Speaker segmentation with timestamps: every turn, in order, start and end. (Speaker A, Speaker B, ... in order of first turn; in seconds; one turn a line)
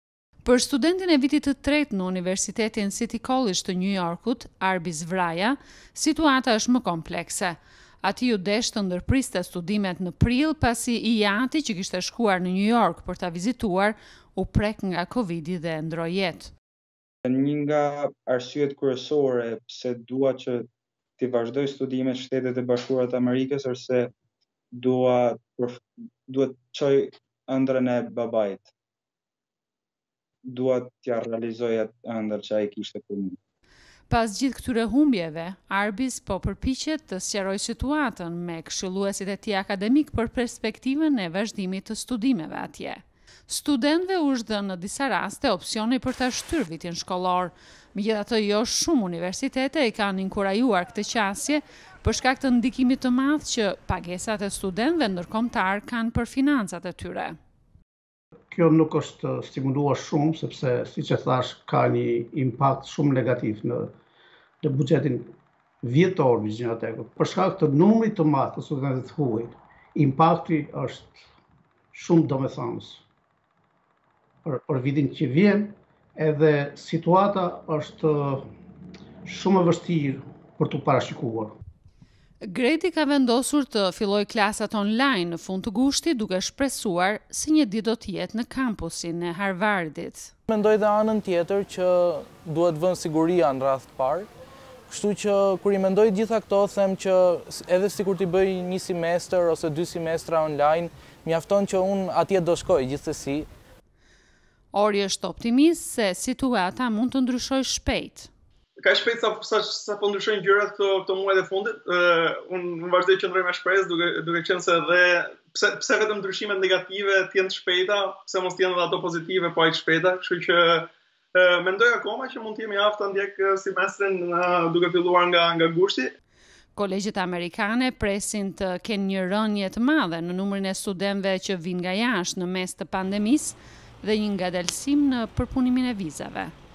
Speaker A: 0.4-16.5
Speaker B: 17.2-20.7
Speaker B: 21.2-24.1
Speaker B: 24.7-28.7
Speaker B: 30.5-33.4
Speaker A: 34.1-57.4
Speaker C: 58.5-63.9
Speaker C: 64.6-65.3
Speaker C: 65.8-71.3
Speaker C: 71.9-73.0
Speaker C: 74.4-78.4
Speaker C: 79.2-81.6
Speaker A: 82.4-90.3
Speaker D: 90.5-94.3
Speaker D: 94.9-103.5
Speaker A: 104.7-108.3
Speaker E: 108.8-126.1
Speaker A: 126.8-136.5